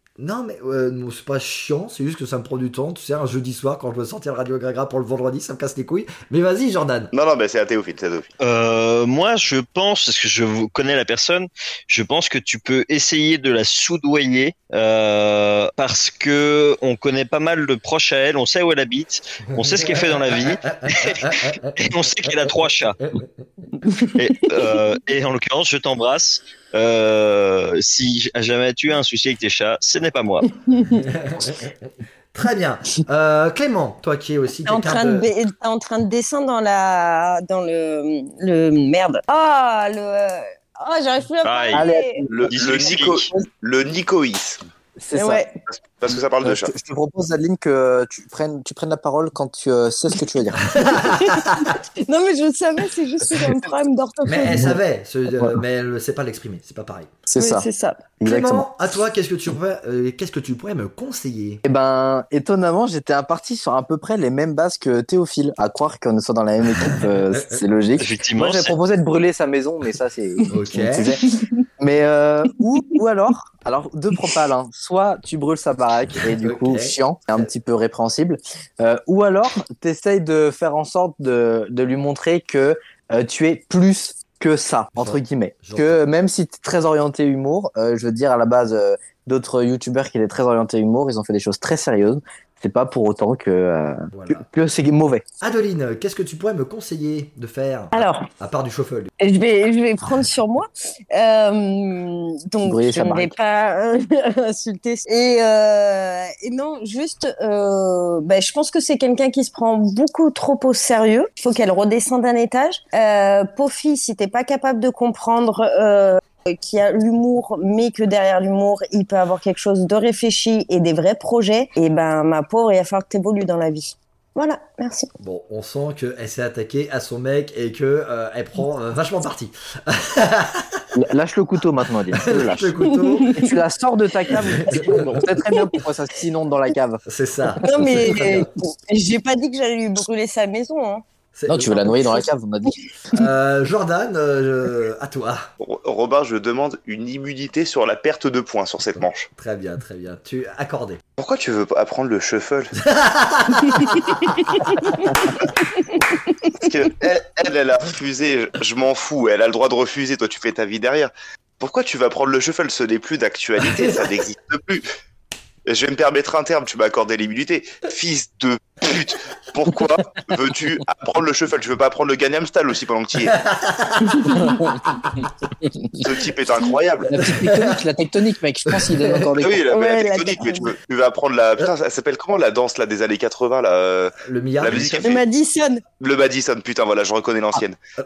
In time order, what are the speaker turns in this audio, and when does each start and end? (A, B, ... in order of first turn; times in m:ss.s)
0:00.2-0:07.1 A
0:07.1-0:08.3 B
0:08.4-0:23.0 C
0:19.5-0:21.8 A
0:23.0-0:23.3 A
0:23.8-0:24.8 D
0:24.1-0:30.5 C
0:30.7-0:31.0 D
0:30.9-0:31.8 A
0:32.3-0:35.3 A
0:34.6-0:42.2 D
0:41.4-0:41.9 C
0:41.7-0:42.5 E
0:42.3-0:44.6 B
0:42.5-0:43.3 C
0:45.0-0:45.5 E
0:45.1-0:45.5 D
0:45.7-0:46.7 B
0:46.4-0:50.8 E
0:50.7-0:51.7 A
0:50.8-0:54.7 D
0:54.2-0:57.2 A
0:57.3-0:57.7 E
0:57.4-0:58.0 D
0:58.2-0:58.7 E
0:58.2-1:01.6 A
1:01.6-1:35.2 E
1:06.8-1:07.6 A
1:08.0-1:08.8 C
1:10.5-1:11.1 A
1:16.4-1:17.4 A
1:25.0-1:26.0 A
1:34.1-1:34.4 A
1:35.4-1:39.1 A
1:37.9-1:38.3 D
1:39.2-2:05.1 D
1:42.6-1:43.3 E
2:05.2-2:10.9 A
2:10.9-2:12.7 E
2:12.1-2:13.5 A
2:12.9-2:13.5 D
2:13.3-2:17.0 E
2:14.4-2:15.2 A
2:17.0-2:18.5 A
2:17.6-2:21.0 D
2:21.3-2:22.1 A
2:21.5-2:22.9 E
2:23.1-2:25.5 A
2:25.6-2:29.3 B
2:29.3-2:31.0 A
2:31.2-2:32.7 B
2:32.8-2:34.5 A
2:34.6-2:34.9 D
2:35.8-2:36.4 D
2:36.5-2:44.8 B
2:43.6-2:44.1 A
2:45.6-2:53.4 B
2:53.2-2:54.7 A
2:54.0-2:54.6 D
2:54.4-2:54.8 E
2:55.6-2:56.0 E
2:56.0-2:57.3 B
2:57.0-2:59.7 E
2:57.2-2:57.8 A
2:58.7-2:59.3 A
2:59.4-3:05.2 B
2:59.7-3:00.7 D
3:04.2-3:05.0 A
3:04.6-3:05.1 C
3:05.0-3:05.8 D
3:06.0-3:07.8 B